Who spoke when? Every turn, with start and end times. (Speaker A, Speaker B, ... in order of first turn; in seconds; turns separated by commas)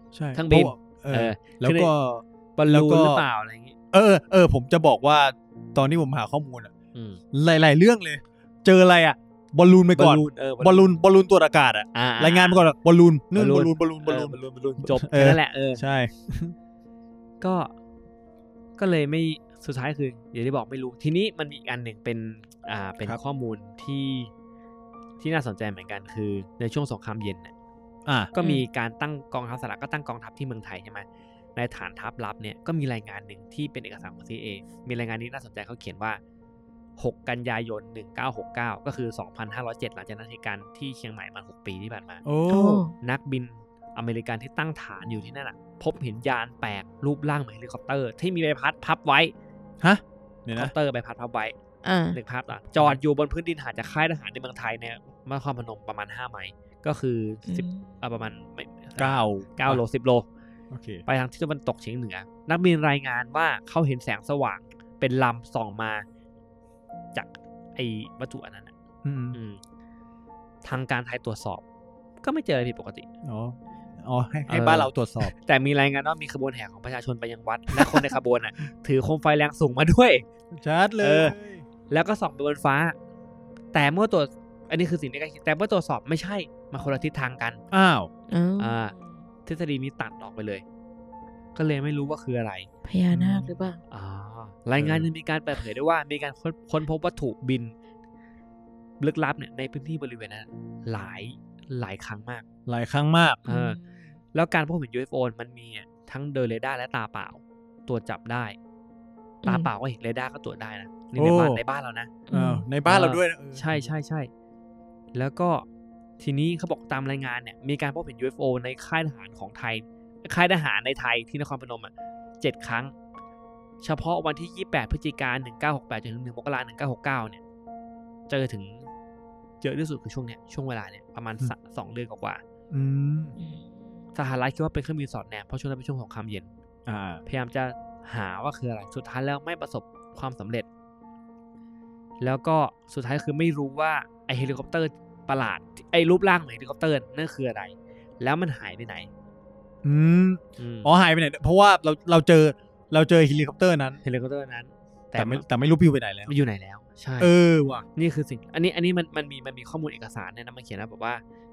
Speaker A: 0.1-3.2, Speaker B: 0.3-1.9, Speaker B: 2.6-3.8, Speaker A: 3.9-6.7, Speaker B: 6.9-7.2, Speaker A: 7.3-16.5, Speaker B: 9.9-11.0, Speaker B: 11.9-12.6, Speaker B: 13.3-15.8, Speaker B: 17.4-17.7, Speaker B: 18.8-24.3, Speaker B: 25.2-27.5, Speaker A: 28.1-28.3, Speaker B: 28.3-36.2, Speaker C: 28.4-28.6, Speaker B: 37.0-42.2, Speaker A: 42.2-42.8, Speaker C: 42.5-42.9, Speaker B: 43.0-49.3, Speaker A: 49.8-50.7, Speaker B: 50.5-51.5, Speaker C: 51.8-52.2, Speaker B: 52.1-60.2, Speaker C: 57.5-57.9, Speaker A: 59.0-59.8, Speaker A: 60.7-61.0, Speaker B: 61.0-66.0, Speaker B: 67.1-68.7, Speaker A: 69.0-69.4, Speaker B: 69.3-69.6, Speaker B: 70.6-71.6, Speaker B: 72.2-73.1, Speaker A: 73.2-75.3, Speaker B: 74.5-80.2, Speaker A: 77.7-78.0, Speaker A: 80.5-81.6, Speaker B: 81.0-81.3, Speaker B: 81.9-83.0, Speaker B: 83.7-87.6, Speaker A: 87.7-88.1, Speaker C: 88.3-89.2, Speaker B: 88.6-88.9, Speaker B: 89.5-90.6, Speaker B: 91.5-92.7, Speaker C: 92.8-93.8, Speaker A: 93.1-93.5, Speaker B: 93.9-97.7, Speaker A: 94.8-95.1, Speaker B: 99.0-102.4, Speaker A: 102.7-103.4, Speaker B: 103.5-103.8, Speaker C: 103.5-104.1, Speaker B: 104.3-108.6, Speaker C: 109.4-109.7, Speaker B: 109.4-112.2, Speaker A: 111.1-111.6, Speaker C: 112.3-112.7, Speaker A: 112.3-113.9, Speaker B: 112.8-114.3, Speaker B: 115.1-115.7, Speaker B: 116.2-122.9, Speaker B: 123.8-127.4, Speaker B: 128.3-128.9, Speaker B: 129.6-132.4, Speaker A: 132.7-133.3, Speaker C: 133.4-133.7, Speaker B: 134.1-136.5, Speaker A: 136.8-137.2, Speaker B: 137.2-140.7, Speaker B: 142.2-149.1, Speaker A: 149.8-154.0, Speaker B: 150.6-150.9, Speaker B: 154.0-155.4, Speaker A: 155.1-156.3, Speaker B: 156.3-157.3, Speaker A: 157.2-157.8, Speaker B: 157.9-161.2